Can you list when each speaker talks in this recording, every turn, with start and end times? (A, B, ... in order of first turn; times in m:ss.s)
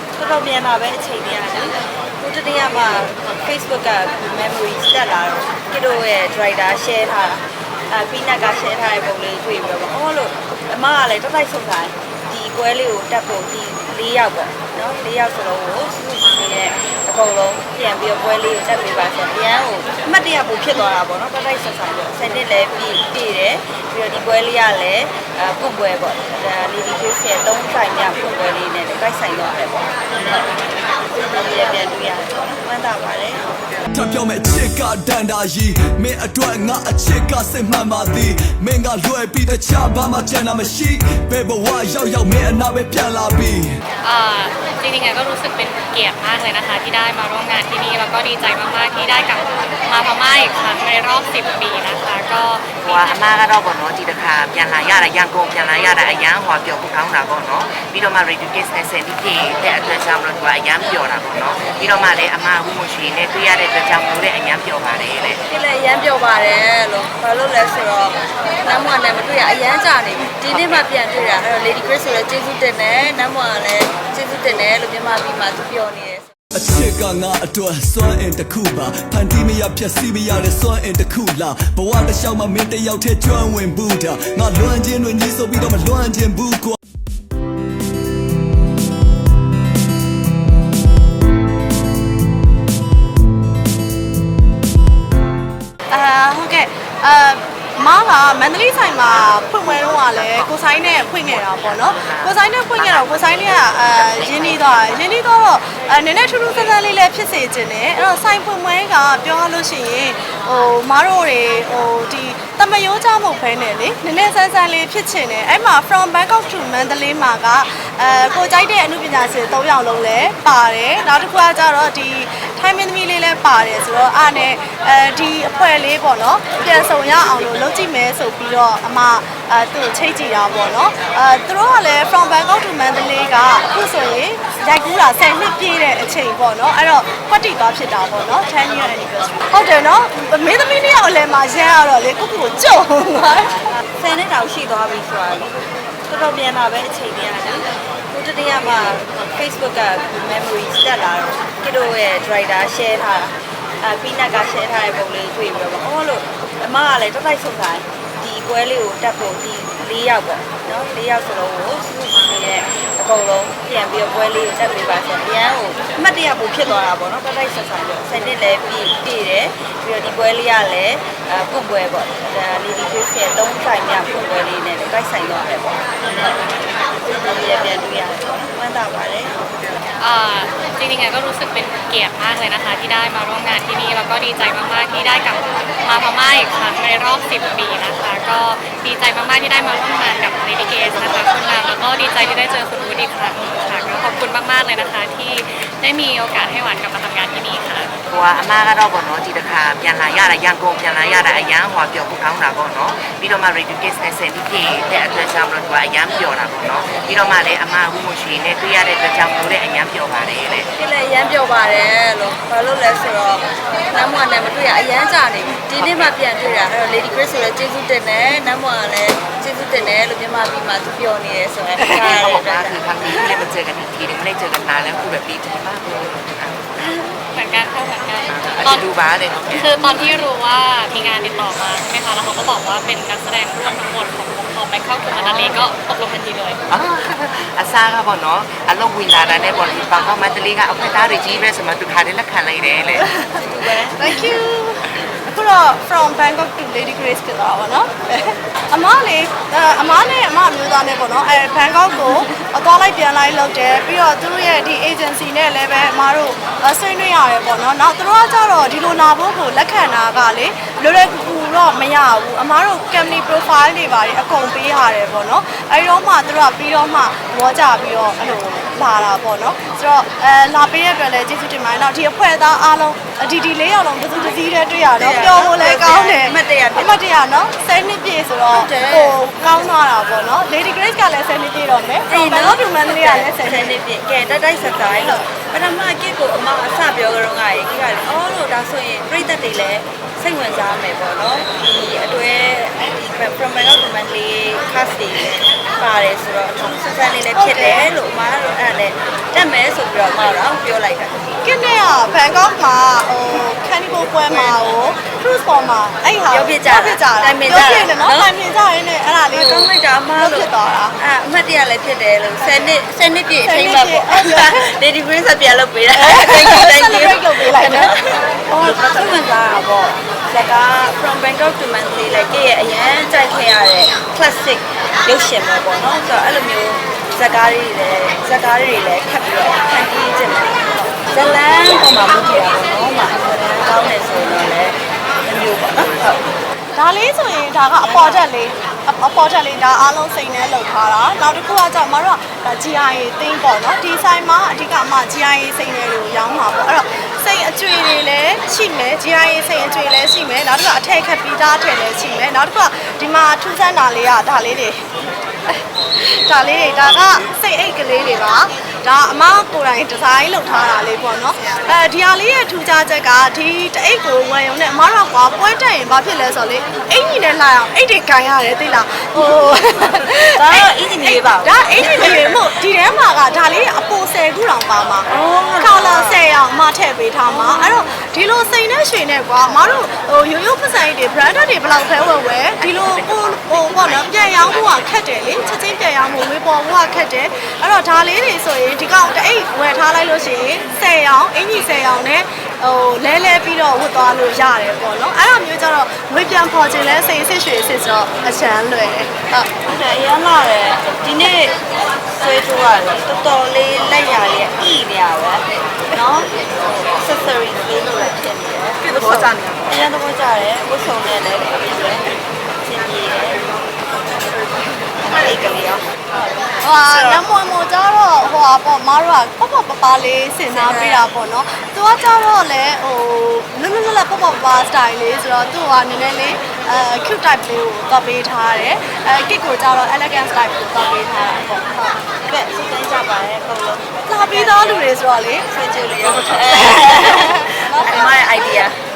0:00.2-0:30.4 A
0:31.2-0:33.5 A
0:33.9-0:43.7 B
0:44.0-0:53.2 C
0:52.8-1:05.4 D
1:05.5-1:16.3 A
1:10.5-1:10.9 D
1:16.6-1:26.8 B
1:35.9-2:23.6 E
1:40.2-1:45.0 D
2:24.0-2:25.5 A
2:26.1-2:56.4 A
2:57.0-2:59.4 A
3:00.0-3:17.9 C
3:18.1-3:30.7 D
3:30.8-3:43.4 A
3:35.8-3:36.2 D
3:41.8-3:47.0 D
3:46.8-3:47.1 A
3:47.3-3:48.9 C
3:48.3-3:49.7 D
3:49.5-3:56.6 C
3:56.7-4:03.1 D
4:03.0-4:43.8 E
4:03.4-4:04.2 A
4:34.9-4:37.1 A
4:38.5-4:39.2 A
4:42.1-5:01.3 A
4:44.9-4:45.3 E
4:57.3-4:57.9 E
5:01.4-5:11.0 E
5:06.3-5:08.3 A
5:09.3-5:30.6 A
5:13.4-5:14.7 E
5:15.9-5:17.9 E
5:18.6-5:19.2 E
5:31.1-5:36.2 A
5:36.8-5:54.8 E
5:37.8-5:38.2 A
5:55.5-6:39.6 E
6:09.2-6:12.6 A
6:15.1-6:16.3 A
6:17.3-6:17.9 A
6:22.6-6:24.9 D
6:39.7-6:46.3 A
6:47.0-6:52.1 A
6:52.7-6:53.5 A
6:55.0-6:55.8 A
6:56.6-7:12.1 E
7:00.5-7:01.1 A
7:12.2-7:18.8 A
7:14.1-7:15.5 E
7:16.0-7:18.6 E